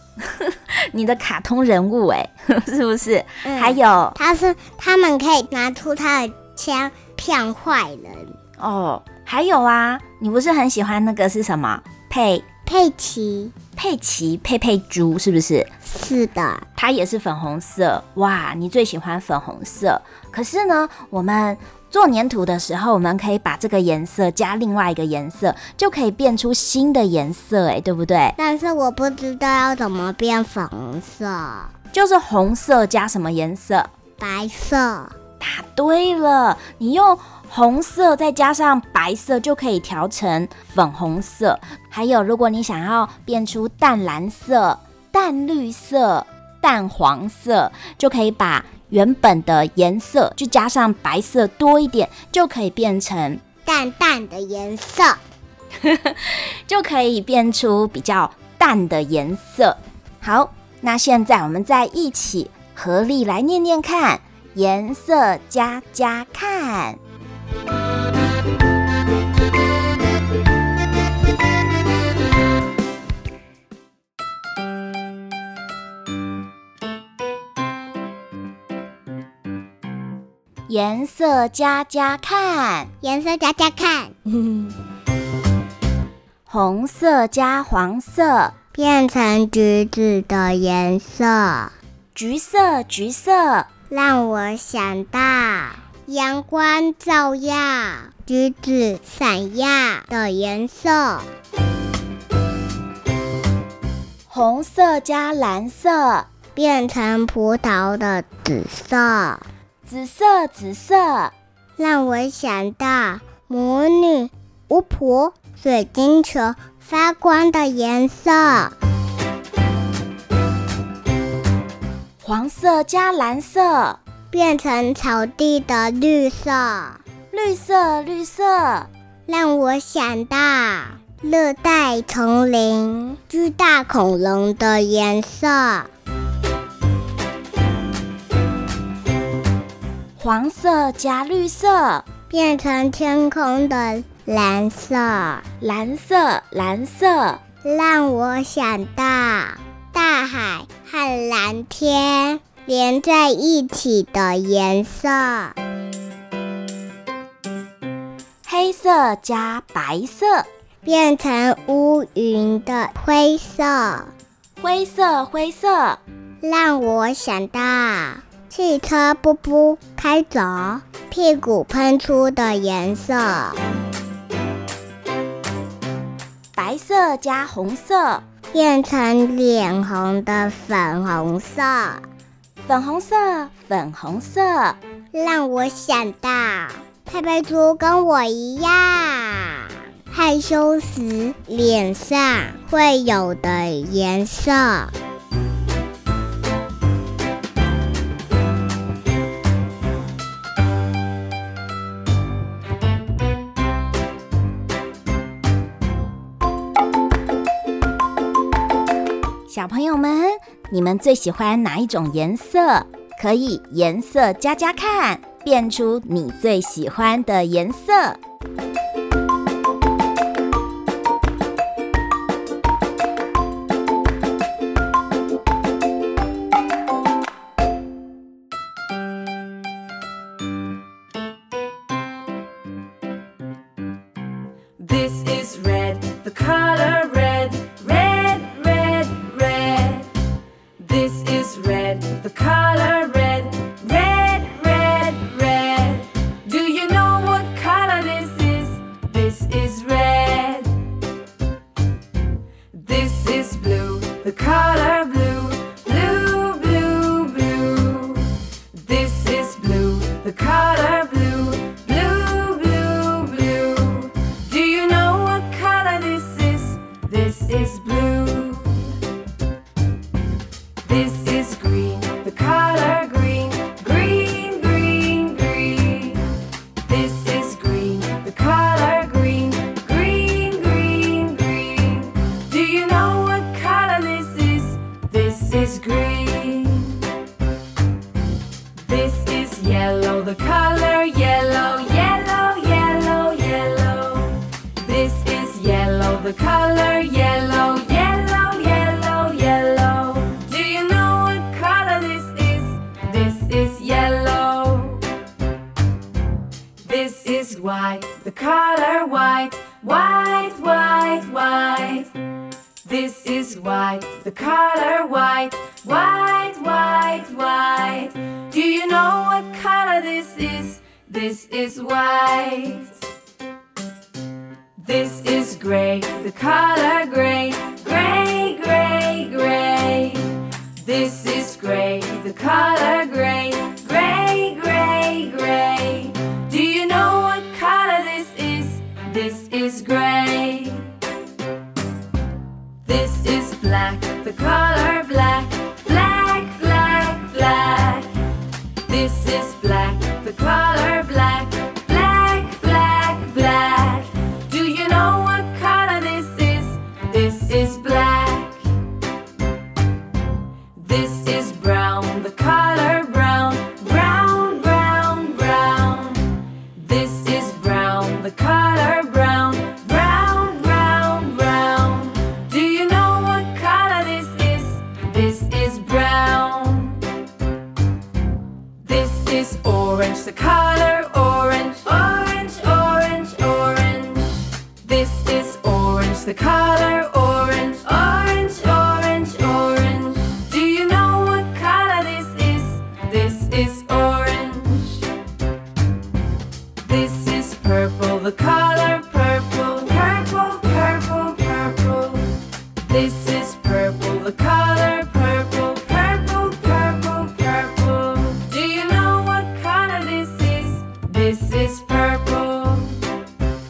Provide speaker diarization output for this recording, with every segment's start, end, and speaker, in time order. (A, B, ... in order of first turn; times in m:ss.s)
0:00.2-0:04.2 A
0:03.4-0:08.4 B
0:08.6-0:12.4 A
0:12.7-0:13.6 B
0:13.8-0:15.7 A
0:15.8-0:16.6 B
0:16.8-0:28.4 A
0:28.4-0:31.7 B
0:31.9-0:33.9 A
0:34.2-0:35.2 B
0:35.4-0:53.4 A
0:53.6-0:55.2 B
0:55.8-1:07.0 A
1:20.7-1:22.9 A
1:23.0-1:24.8 B
1:26.5-1:28.6 A
1:28.7-1:31.7 B
1:32.2-1:33.7 A
1:33.9-1:41.3 B
1:44.3-1:46.3 A
1:46.6-1:49.4 B
1:49.9-1:51.3 A
1:51.8-1:58.7 B
2:02.2-2:04.0 A
2:04.3-2:07.0 B
2:07.3-2:08.9 A
2:09.3-2:15.9 B
2:20.2-2:22.1 A
2:22.3-2:25.4 B
2:25.6-2:27.4 A
2:27.6-2:35.6 B
2:38.4-2:40.5 A
2:40.8-2:44.1 B
2:44.6-2:46.0 A
2:46.4-2:53.6 B
2:56.6-2:58.2 A
2:58.5-3:02.0 B
3:02.6-3:04.8 A
3:05.1-3:14.9 B
3:29.5-3:38.2 A
3:54.8-4:00.1 C
4:00.8-4:10.9 C
4:12.7-4:29.0 C
4:30.8-4:47.1 C
4:48.8-5:05.1 C
5:06.8-5:12.2 C
5:12.8-5:23.0 C
5:24.8-5:40.9 C
5:42.8-5:58.7 C
6:00.8-6:17.0 C
6:18.8-6:35.1 C
6:36.8-6:53.0 C